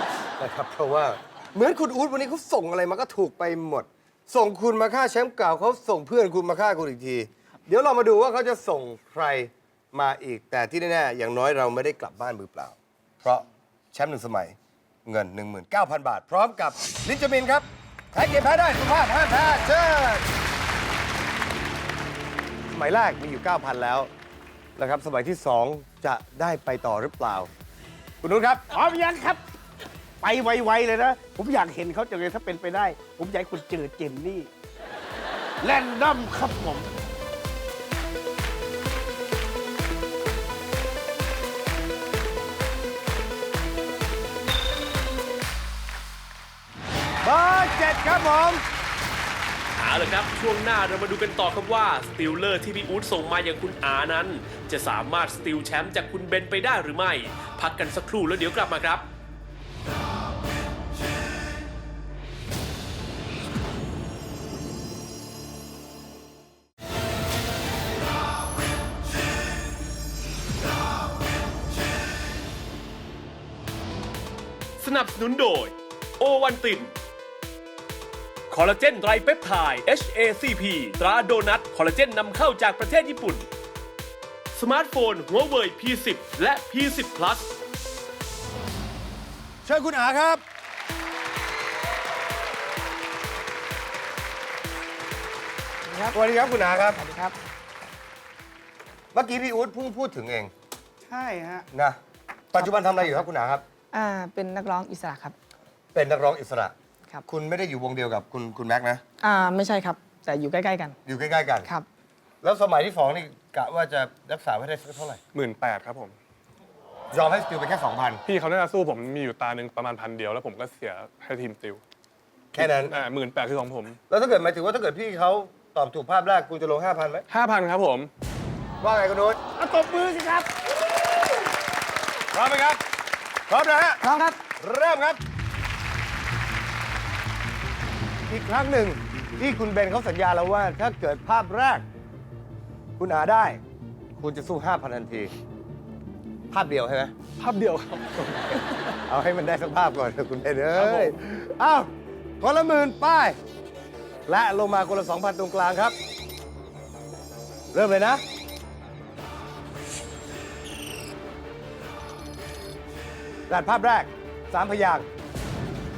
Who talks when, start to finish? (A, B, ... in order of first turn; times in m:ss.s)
0:00.4-0:20.2 A
0:22.7-0:24.1 A
0:24.8-0:27.5 A
0:28.2-0:28.6 A
0:28.7-0:29.4 B
0:30.2-0:34.5 B
0:35.6-0:36.9 B
0:47.2-0:48.6 A
0:49.8-0:59.0 C
1:14.8-1:16.9 C
1:18.5-1:23.4 C
1:24.5-1:27.5 C
1:29.6-1:30.4 A
1:35.9-1:36.2 D
1:36.1-1:37.0 A
1:37.0-1:37.4 D
1:39.1-1:40.5 A
1:41.1-1:41.7 B
1:41.7-1:42.0 A
1:42.5-1:43.6 A
1:43.9-1:45.3 D
1:45.9-1:46.7 A
1:47.3-1:49.0 A
1:49.2-1:51.0 D
1:51.0-1:51.7 A
1:52.4-1:55.2 A
1:55.3-1:56.1 E
1:57.1-1:58.2 A
1:58.2-2:01.8 E
2:02.5-2:03.0 A
2:02.6-2:04.0 E
2:04.1-2:07.2 A
2:07.3-2:08.1 E
2:08.8-2:09.4 A
2:09.6-2:10.5 B
2:12.3-2:12.8 A
2:13.5-2:15.2 A
2:14.0-2:14.4 D
2:18.3-2:21.8 A
2:23.0-2:23.6 A
2:24.2-2:25.3 A
2:26.5-2:27.1 A
2:27.4-2:28.9 E
2:29.1-2:31.9 A
2:30.7-2:31.1 E
2:32.4-2:33.4 A
2:34.3-2:36.0 A
2:37.7-2:38.2 A
2:43.5-2:45.0 A